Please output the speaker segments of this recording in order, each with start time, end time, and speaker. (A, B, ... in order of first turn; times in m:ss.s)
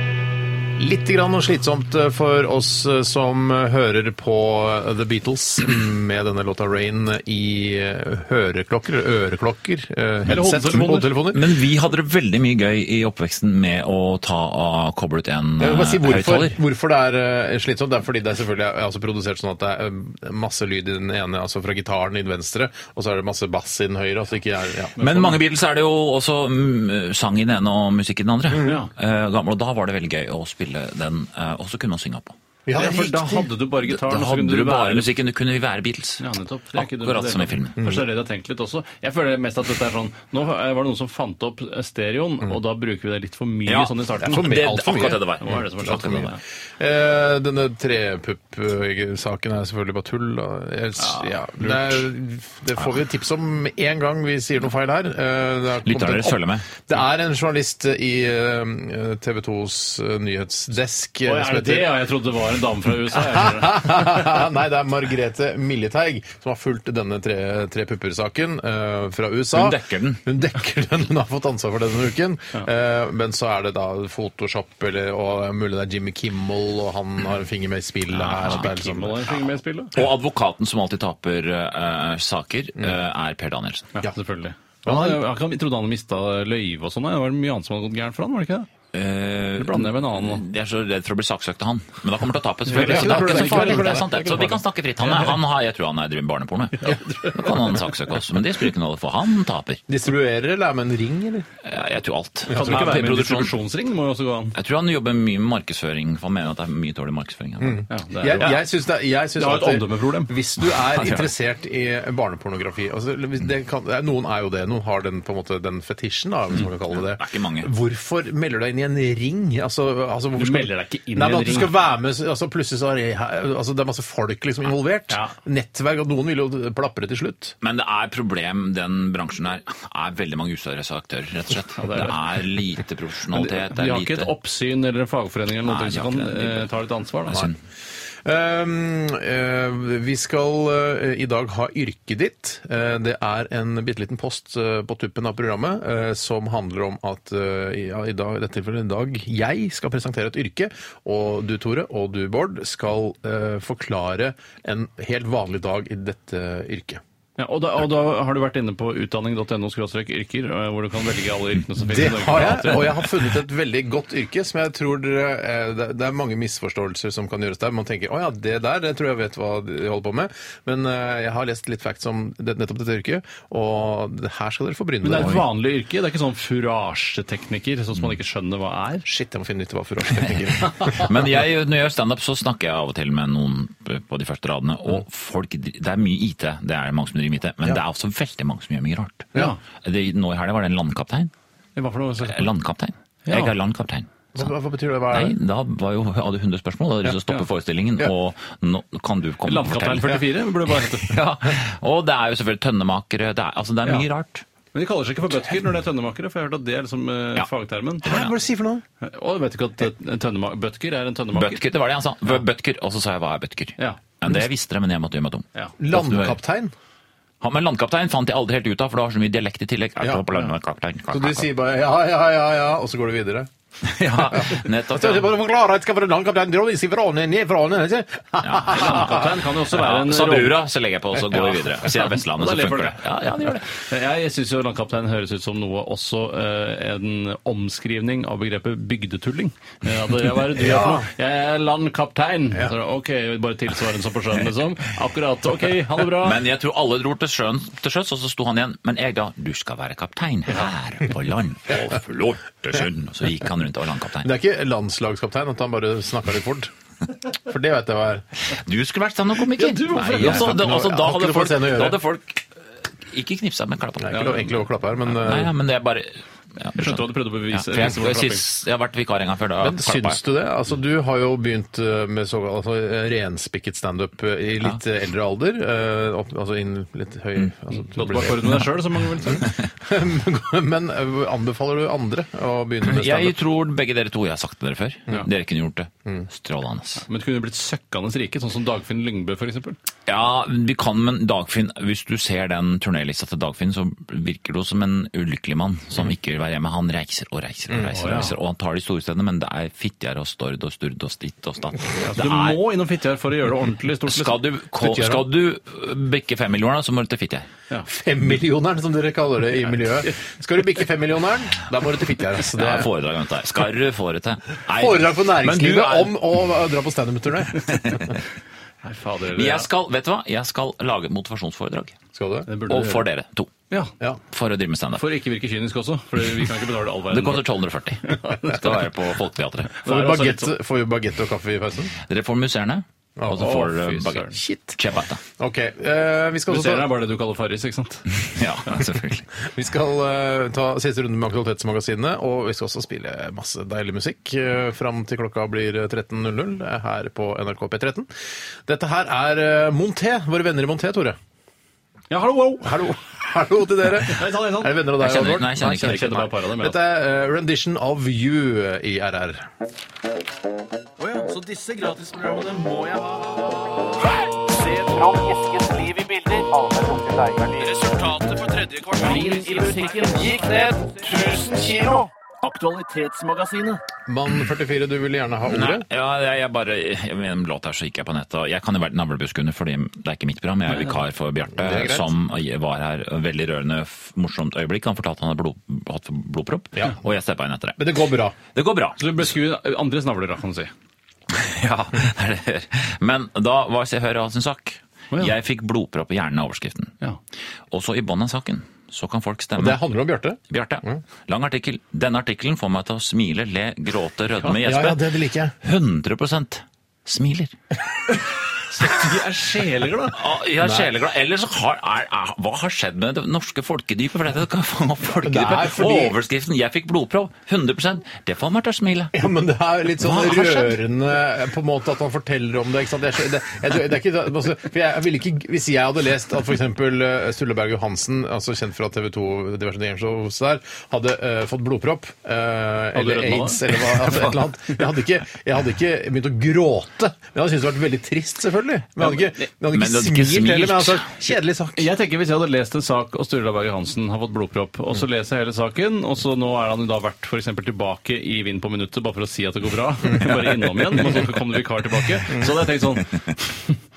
0:00.8-0:11.4 A
0:10.3-0:11.1 B
0:11.3-0:16.6 C
0:15.6-0:25.0 A
0:25.0-0:25.4 B
0:25.0-0:32.4 C
0:28.6-0:28.9 B
0:32.7-0:33.5 A
0:32.7-0:35.1 B
0:33.8-0:36.3 C
0:36.2-0:44.5 B
0:36.8-0:37.8 C
0:37.8-0:38.0 A
0:43.7-0:46.2 C
0:44.2-1:02.0 A
0:45.4-0:46.4 B
0:51.0-0:51.4 B
0:55.8-0:56.7 C
1:01.3-1:04.4 B
1:03.4-1:19.2 A
1:09.5-1:10.2 C
1:18.1-1:18.7 C
1:18.5-1:20.0 B
1:20.0-1:24.0 C
1:24.0-1:28.7 B
1:24.9-1:25.2 A
1:28.9-1:39.8 C
1:29.6-1:30.4 B
1:32.7-1:34.4 B
1:32.7-1:34.6 A
1:35.0-1:35.3 B
1:36.8-1:37.9 B
1:39.9-1:41.5 A
1:41.6-1:43.5 C
1:42.5-1:43.0 A
1:42.5-1:44.6 B
1:44.6-1:47.8 C
1:47.6-2:07.6 A
1:47.9-1:48.6 B
1:49.4-1:50.3 B
1:50.8-1:51.3 C
1:56.6-1:57.7 C
2:00.4-2:01.7 B
2:05.1-2:05.3 B
2:07.6-2:14.3 C
2:11.8-2:12.2 B
2:13.3-2:17.5 B
2:15.6-2:16.7 C
2:17.3-2:17.6 C
2:18.2-2:37.0 A
2:37.4-2:43.0 B
2:41.9-2:55.4 A
2:55.0-2:59.1 B
2:55.1-2:55.4 C
2:59.0-3:01.2 A
3:00.6-3:11.3 C
3:11.8-3:12.5 B
3:12.2-3:14.1 C
3:13.3-3:13.5 B
3:14.3-3:15.4 A
3:15.1-3:20.2 C
3:19.4-3:21.2 B
3:21.0-3:24.4 C
3:24.7-3:28.1 B
3:28.0-3:28.8 A
3:28.0-3:28.3 C
3:29.0-3:31.6 B
3:31.3-3:36.4 C
3:35.8-3:36.7 A
3:37.4-3:41.5 C
3:41.1-3:43.5 A
3:43.8-3:45.3 C
3:44.3-3:49.3 A
3:48.4-3:53.6 C
3:48.7-3:50.7 B
3:51.2-4:06.4 B
4:00.6-4:01.1 A
4:06.2-4:14.3 C
4:14.2-4:16.7 A
4:17.3-4:18.2 A
4:18.5-4:22.5 C
4:19.6-4:20.6 B
4:20.1-4:22.0 A
4:23.1-4:30.2 C
4:24.0-4:25.5 A
4:26.8-4:28.4 B
4:29.6-4:38.7 A
4:37.9-4:39.4 B
4:39.2-4:43.4 A
4:42.8-4:47.1 C
4:47.1-4:49.8 B
4:50.1-5:02.6 C
4:57.9-4:58.4 B
5:02.0-5:04.4 B
5:04.1-5:07.5 C
5:04.8-5:05.3 A
5:07.8-5:12.9 A
5:12.5-5:16.2 C
5:14.8-5:18.2 A
5:17.7-5:18.2 C
5:18.8-5:19.7 B
5:19.4-5:22.0 C
5:22.1-5:22.5 A
5:22.5-5:23.1 B
5:22.7-5:23.5 C
5:24.3-5:25.0 C
5:25.0-5:28.9 B
5:27.1-5:29.8 C
5:29.8-5:30.5 B
5:29.8-5:31.9 A
5:32.0-5:35.2 C
5:33.2-5:33.6 A
5:33.4-5:34.4 B
5:34.3-5:36.9 A
5:36.5-5:38.1 B
5:38.3-5:39.3 C
5:39.4-5:48.1 A
5:48.7-5:51.2 A
5:52.1-5:52.7 B
5:52.6-5:59.5 A
5:54.1-5:54.8 B
5:55.0-5:56.3 C
5:55.6-5:56.8 B
6:01.0-6:03.9 B
6:04.4-6:13.8 B
6:14.1-6:15.8 A
6:15.5-6:27.9 C
6:20.7-6:21.0 B
6:21.6-6:22.1 A
6:27.8-6:28.4 A
6:28.5-6:29.1 C
6:29.0-6:30.7 B
6:31.3-6:36.9 C
6:37.7-6:39.8 C
6:39.6-6:41.0 A
6:40.5-6:47.5 C
6:44.4-6:45.5 A
6:48.7-6:50.2 B
6:50.1-6:59.2 C
6:50.6-6:50.9 A
6:55.2-6:56.2 A
6:59.1-7:21.9 A
7:00.0-7:00.8 C
7:13.0-7:14.4 B
7:19.7-7:21.1 C
7:21.8-7:33.8 B